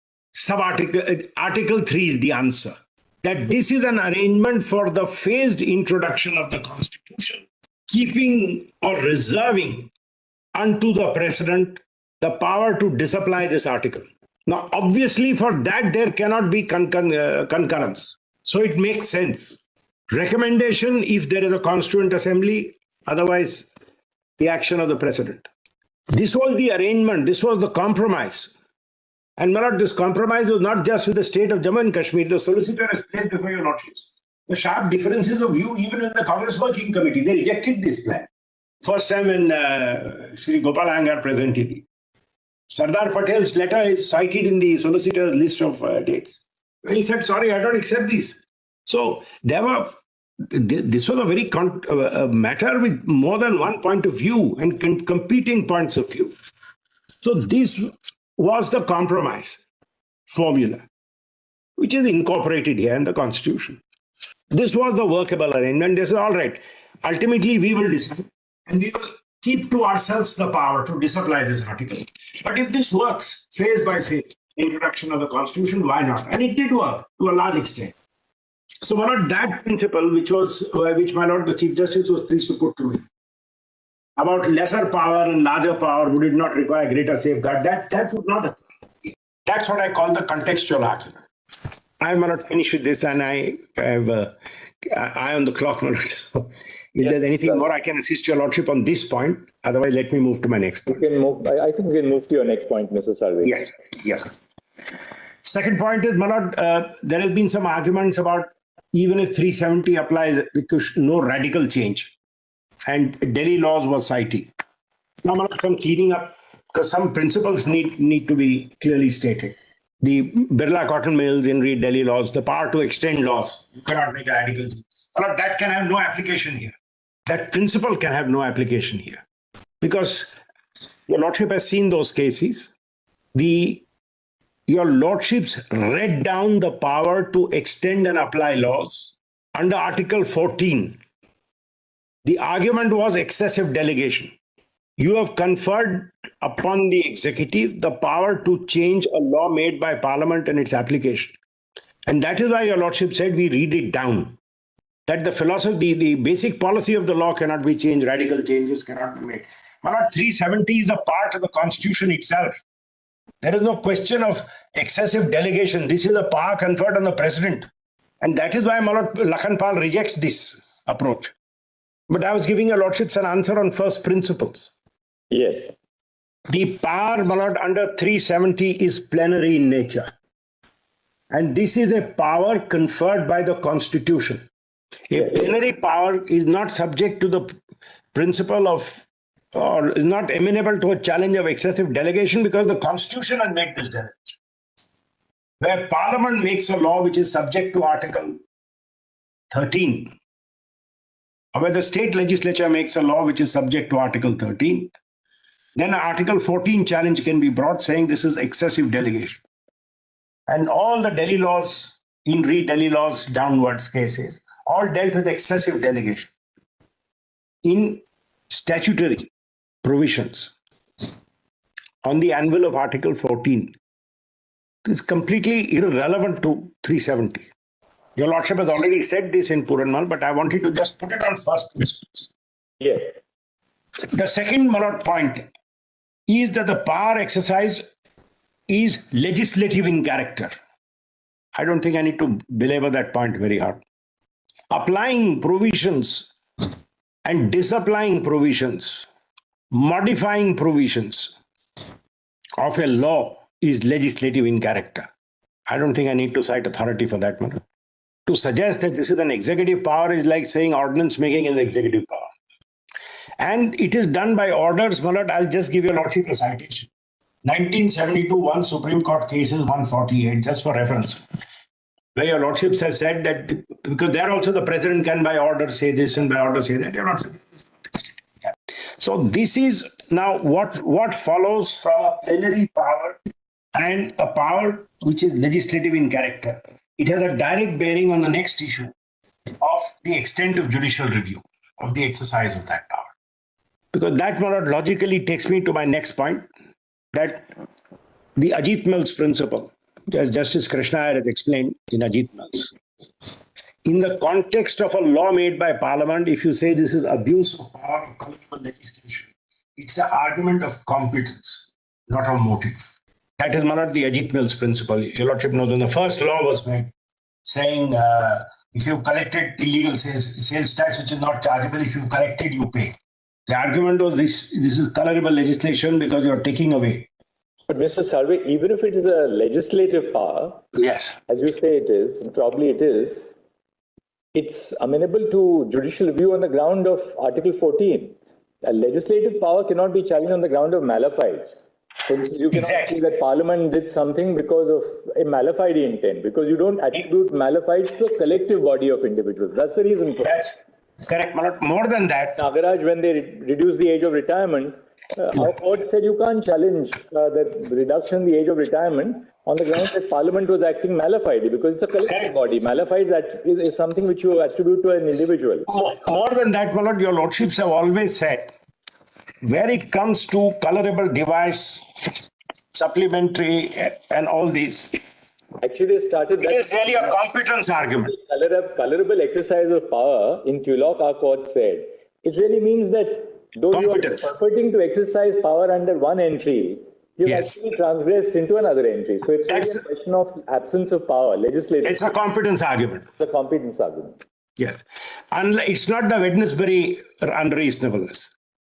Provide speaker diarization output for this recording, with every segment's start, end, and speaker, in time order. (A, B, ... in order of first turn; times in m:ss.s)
0:00.3-0:09.9 A
0:10.5-0:23.7 A
0:24.4-0:25.5 A
0:26.1-0:28.5 A
0:29.4-0:38.3 A
0:38.8-0:41.8 A
0:42.7-0:50.0 A
0:50.5-0:56.3 A
0:57.2-0:59.6 A
1:00.3-1:00.8 A
1:01.8-1:03.8 A
1:04.5-1:17.9 A
1:18.8-1:23.0 A
1:24.2-1:31.2 A
1:32.0-1:41.0 A
1:37.0-1:37.6 B
1:40.9-1:43.6 B
1:43.4-1:44.3 A
1:45.4-1:52.1 A
1:52.8-1:54.5 A
1:55.2-2:06.7 A
2:07.3-2:09.2 A
2:09.8-2:10.3 A
2:11.1-2:12.7 A
2:13.3-2:13.8 A
2:14.7-2:21.0 A
2:22.2-2:24.3 A
2:25.0-2:31.4 A
2:32.0-2:34.4 A
2:35.1-2:42.6 A
2:43.4-2:47.7 A
2:48.2-2:51.3 A
2:52.1-2:54.7 A
2:55.3-2:55.7 B
2:56.5-3:00.1 A
3:01.3-3:04.4 A
3:05.1-3:07.5 A
3:05.2-3:05.5 B
3:08.1-3:14.4 A
3:15.6-3:18.4 A
3:19.5-3:20.1 A
3:21.5-3:24.9 A
3:25.8-3:29.4 A
3:30.5-3:36.3 A
3:37.6-3:39.3 A
3:39.8-3:41.1 A
3:42.0-3:43.7 A
3:44.8-3:47.5 A
3:48.2-3:52.3 A
3:52.8-3:53.1 B
3:54.1-3:55.5 A
3:56.3-3:57.8 A
3:58.7-4:00.5 A
4:01.5-4:03.8 A
4:04.7-4:06.3 A
4:07.2-4:09.1 A
4:09.7-4:11.3 A
4:12.6-4:15.1 A
4:15.7-4:17.6 A
4:18.2-4:22.3 A
4:23.4-4:26.9 A
4:27.4-4:31.2 A
4:32.1-4:43.2 A
4:43.7-4:48.9 A
4:49.6-4:53.1 A
4:53.9-4:56.5 A
4:57.1-4:57.5 A
4:58.4-5:02.7 A
5:03.8-5:12.8 A
5:13.4-5:16.9 A
5:17.4-5:22.9 A
5:23.5-5:27.1 A
5:27.7-5:30.6 B
5:30.7-5:31.2 A
5:31.3-5:33.3 B
5:34.3-5:50.5 B
5:42.5-5:43.0 A
5:50.2-5:50.5 A
5:51.0-5:52.4 A
5:52.4-6:05.7 B
6:05.7-6:08.5 A
6:09.4-6:14.9 A
6:15.6-6:17.2 B
6:16.4-6:18.1 A
6:18.0-6:32.1 B
6:23.7-6:24.3 A
6:27.2-6:27.6 A
6:29.5-6:29.8 A
6:31.8-6:33.1 A
6:33.2-6:34.2 B
6:34.6-6:38.3 A